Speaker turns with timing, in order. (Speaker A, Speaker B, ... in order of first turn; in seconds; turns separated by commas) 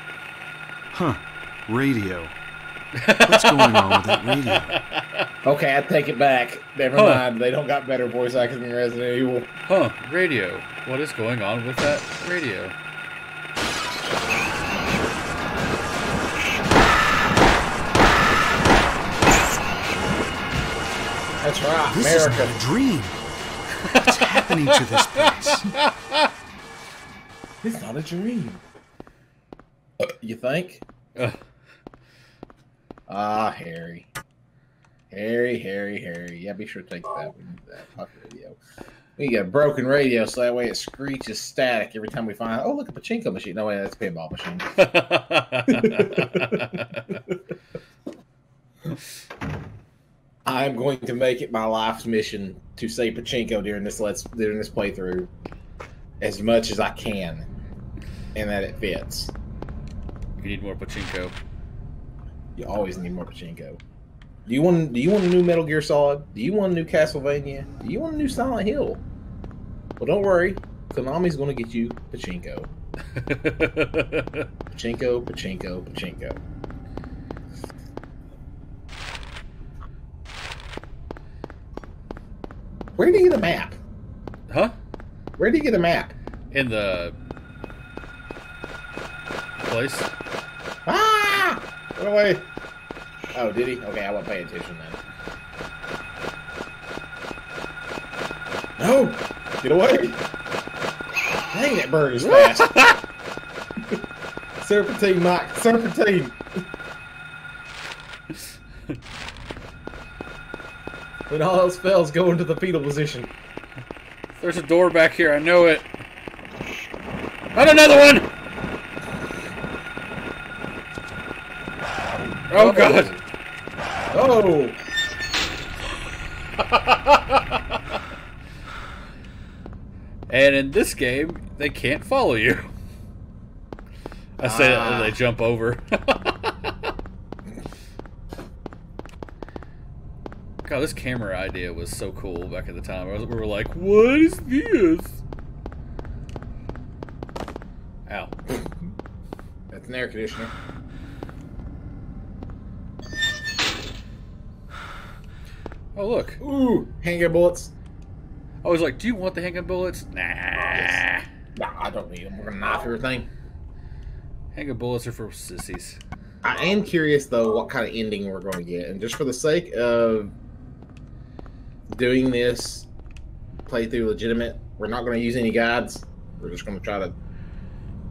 Speaker A: 0.9-2.3, Speaker B: 3.0-5.2, Speaker A: 3.2-4.7, Speaker C: 5.4-9.5, Speaker B: 6.9-7.2, Speaker B: 9.7-12.7, Speaker C: 21.4-22.6, Speaker A: 21.9-23.2, Speaker B: 23.9-26.3, Speaker A: 24.0-25.7, Speaker C: 27.6-28.6, Speaker C: 30.0-30.8, Speaker C: 33.1-34.1, Speaker C: 35.1-38.5, Speaker C: 39.2-44.7, Speaker B: 44.8-47.2, Speaker C: 45.7-46.6, Speaker C: 50.4-55.3, Speaker C: 56.2-57.5, Speaker C: 58.3-59.3, Speaker B: 60.4-61.3, Speaker C: 62.5-63.8, Speaker C: 64.5-69.0, Speaker C: 70.0-72.7, Speaker B: 73.1-74.5, Speaker C: 74.7-76.4, Speaker C: 83.0-83.8, Speaker B: 84.5-84.8, Speaker C: 85.4-86.1, Speaker B: 86.5-87.2, Speaker B: 89.6-90.1, Speaker C: 90.8-92.5, Speaker C: 93.3-95.0, Speaker C: 98.8-100.2, Speaker C: 101.5-102.7, Speaker B: 102.2-103.0, Speaker C: 104.6-106.4, Speaker C: 111.3-113.3, Speaker B: 114.4-115.9, Speaker B: 117.5-118.3, Speaker B: 122.5-123.2, Speaker C: 122.5-123.2, Speaker C: 124.1-124.8, Speaker B: 126.6-127.8, Speaker B: 130.3-132.7, Speaker B: 134.4-136.9, Speaker C: 134.4-135.2, Speaker B: 140.6-145.2, Speaker B: 148.1-148.3, Speaker C: 149.7-150.5, Speaker B: 155.9-156.4, Speaker C: 156.4-157.7, Speaker B: 158.6-161.2, Speaker C: 160.7-161.0, Speaker C: 161.6-163.3, Speaker B: 164.5-166.0, Speaker C: 166.4-170.3, Speaker C: 171.9-172.9, Speaker C: 173.7-177.1